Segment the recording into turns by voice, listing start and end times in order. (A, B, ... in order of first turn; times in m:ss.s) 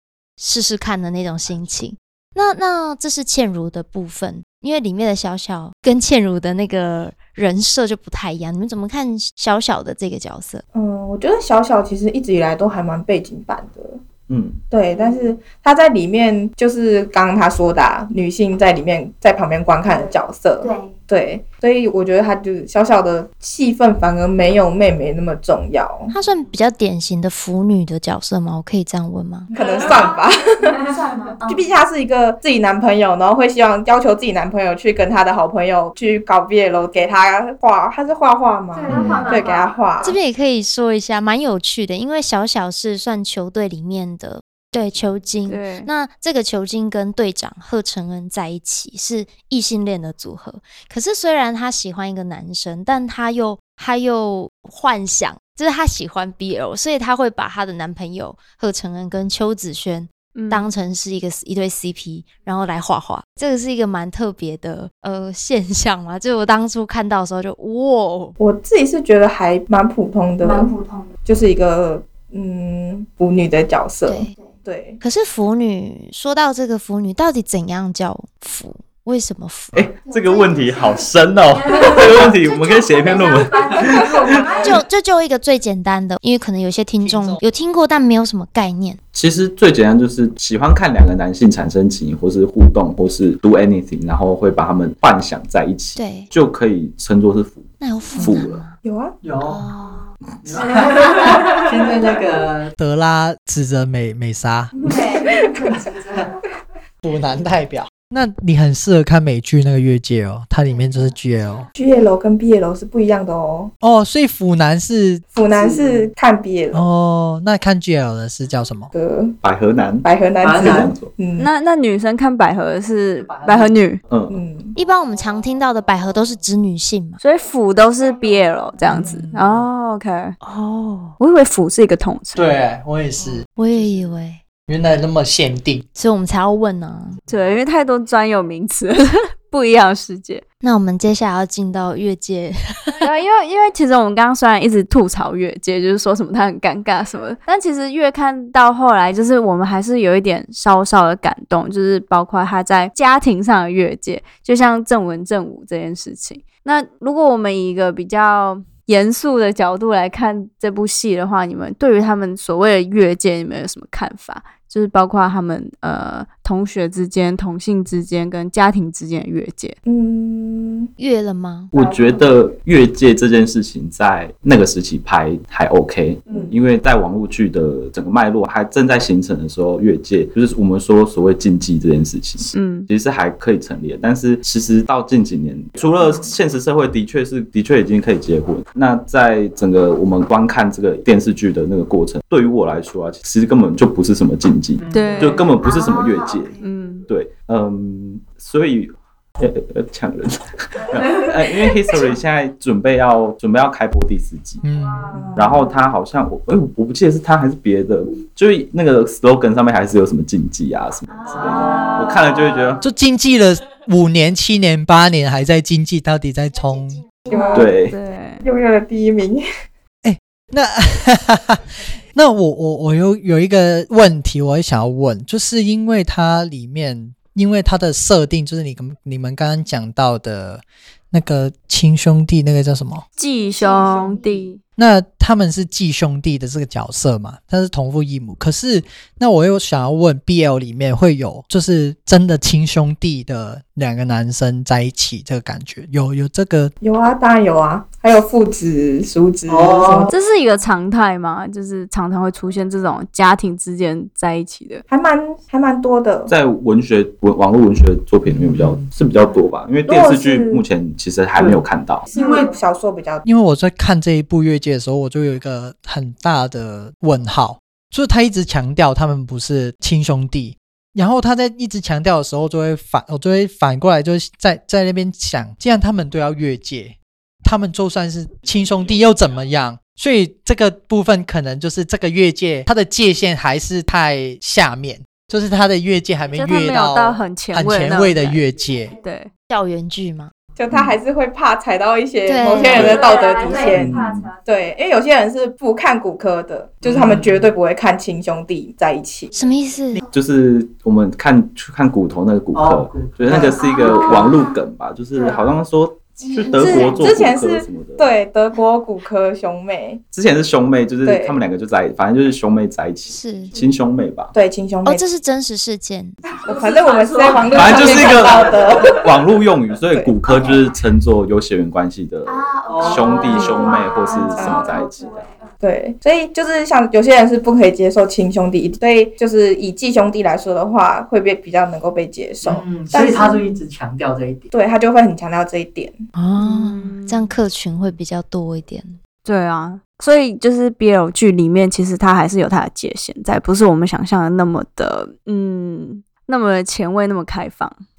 0:00.4-0:10.6 A
0:10.7-0:14.0 B
0:14.3-0:14.6 C
0:14.7-0:26.1 B
0:14.9-0:15.3 D
0:19.8-0:21.0 D
0:26.1-0:29.5 A
0:29.6-0:30.8 B
0:29.6-0:31.7 D
0:31.5-0:40.2 B
0:38.7-0:40.1 D
0:39.0-0:39.2 A
0:39.3-0:39.6 E
0:40.0-1:08.4 A
0:45.5-0:45.9 E
1:00.4-1:00.6 E
1:08.4-1:10.7 B
1:10.4-1:11.1 D
1:11.2-1:15.0 B
1:14.0-1:14.3 A
1:15.0-1:19.9 A
1:19.7-1:24.5 C
1:20.0-1:24.8 D
1:22.4-1:22.8 A
1:24.6-1:29.0 A
1:27.0-1:27.4 F
1:29.1-1:38.6 C
1:36.0-1:36.3 A
1:37.8-1:38.8 A
1:38.8-1:39.2 B
1:39.2-1:39.6 G
1:39.4-1:40.0 A
1:39.8-1:40.1 D
1:40.4-1:42.7 G
1:40.6-1:41.2 D
1:42.8-1:44.8 F
1:44.8-1:46.4 D
1:47.0-1:51.7 F
1:50.7-1:51.1 D
1:51.8-1:53.7 B
1:53.8-1:55.2 F
1:55.3-1:56.8 B
1:55.5-1:56.1 G
1:56.7-1:58.9 F
1:58.9-1:59.4 B
1:59.4-2:01.1 C
2:00.0-2:01.5 B
2:00.4-2:01.0 G
2:01.4-2:04.0 E
2:03.2-2:03.9 G
2:04.1-2:04.4 C
2:04.3-2:04.8 B
2:04.8-2:07.2 A
2:07.2-2:10.4 E
2:08.9-2:09.6 F
2:10.4-2:11.2 A
2:11.2-2:12.5 E
2:12.4-2:13.4 F
2:13.6-2:14.4 A
2:14.7-2:15.8 F
2:16.0-2:17.2 A
2:17.3-2:20.4 E
2:20.6-2:23.0 A
2:23.0-2:49.8 E
2:49.9-2:50.9 B
2:51.0-2:51.7 A
2:51.7-3:16.6 C
2:51.8-2:52.2 E
3:02.4-3:02.9 E
3:14.8-3:15.6 G
3:14.9-3:15.4 E
3:15.6-3:16.6 D
3:16.6-3:17.1 E
3:17.1-3:24.6 C
3:20.9-3:21.2 D
3:24.6-3:25.2 F
3:24.7-3:25.5 D
3:25.4-3:32.8 C
3:31.1-3:32.8 D
3:31.3-3:31.8 G
3:32.8-3:37.0 F
3:36.6-3:37.7 D
3:37.3-3:37.7 B
3:37.5-3:38.0 C
3:37.9-3:38.4 E
3:38.4-3:39.4 B
3:40.0-3:53.0 F
3:53.2-3:54.6 E
3:53.2-3:54.5 D
3:54.8-4:06.7 F
4:06.8-4:10.1 B
4:09.5-4:10.1 G
4:10.1-4:14.8 E
4:14.9-4:16.3 B
4:16.3-4:22.1 C
4:18.3-4:18.9 G
4:19.9-4:20.6 B
4:21.4-4:22.5 G
4:22.1-4:23.2 B
4:23.2-4:48.9 F
4:46.3-4:48.4 E
4:48.6-4:49.1 D
4:49.0-4:49.3 E
4:49.5-4:50.3 A
4:50.6-4:59.3 B
4:52.2-4:53.0 A
4:52.5-4:54.8 E
4:52.7-4:54.3 C
4:52.8-4:53.8 D
4:56.8-4:57.5 G
4:59.3-5:00.0 D
4:59.4-5:00.0 A
5:00.1-5:08.1 C
5:02.5-5:04.3 G
5:03.3-5:03.6 B
5:03.3-5:04.6 D
5:05.1-5:05.5 D
5:06.2-5:07.3 D
5:06.5-5:10.0 B
5:10.1-5:14.3 C
5:11.0-5:11.4 B
5:13.1-5:13.5 A
5:13.4-5:13.7 D
5:14.3-5:15.0 B
5:14.8-5:16.2 A
5:16.4-5:19.1 B
5:16.5-5:18.3 E
5:17.5-5:25.3 C
5:18.1-5:18.5 G
5:19.9-5:20.2 B
5:20.3-5:20.7 D
5:22.2-5:25.5 D
5:22.6-5:23.5 G
5:24.4-5:24.9 B
5:25.6-5:33.5 B
5:32.4-5:34.5 G
5:34.5-5:36.0 B
5:36.1-5:39.0 A
5:36.4-5:37.3 E
5:39.2-5:47.8 E